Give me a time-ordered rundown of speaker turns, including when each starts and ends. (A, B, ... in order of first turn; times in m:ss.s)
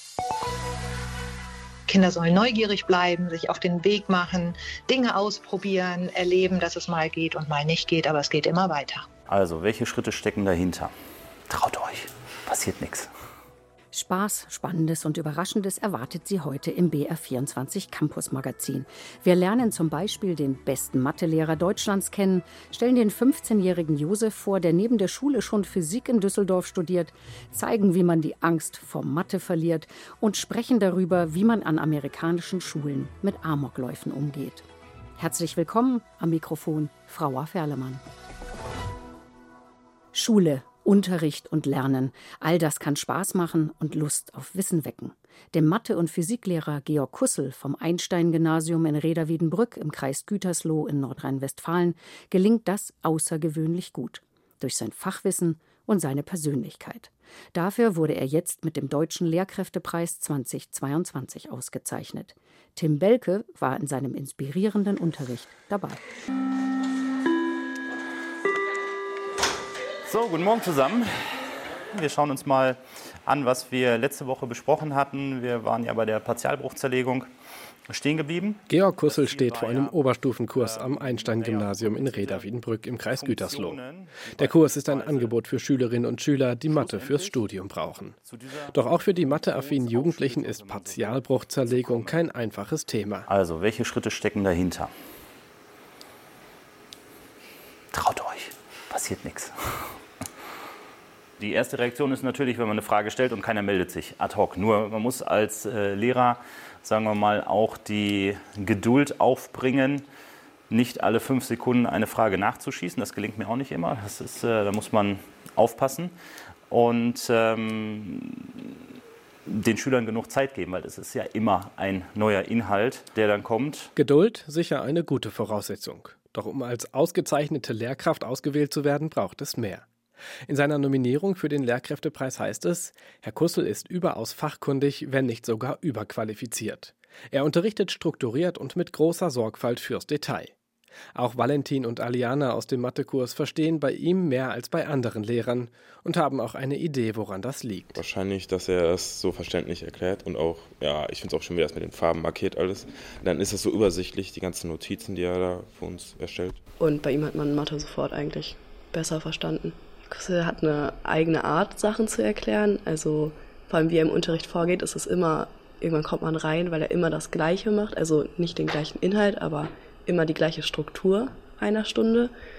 0:01.9-0:09.0 A
0:09.3-0:10.9 B
0:11.5-0:13.1 B
0:13.9-0:34.6 C
0:35.2-0:38.0 C
0:40.1-1:06.0 C
1:10.0-1:17.3 B
1:17.9-1:25.9 B
1:18.7-1:23.8 D
1:24.3-1:28.2 D
1:26.6-1:27.5 B
1:28.2-1:32.3 B
1:28.7-1:33.3 D
1:33.3-1:34.9 B
1:37.9-1:39.9 B
1:41.4-1:50.0 B
1:50.7-1:56.1 B
1:56.7-1:58.7 B
1:59.4-2:03.9 B
2:04.0-2:09.9 D
2:10.5-2:20.5 D
2:21.1-2:28.0 D
2:27.9-2:36.6 E
2:36.8-2:52.3 F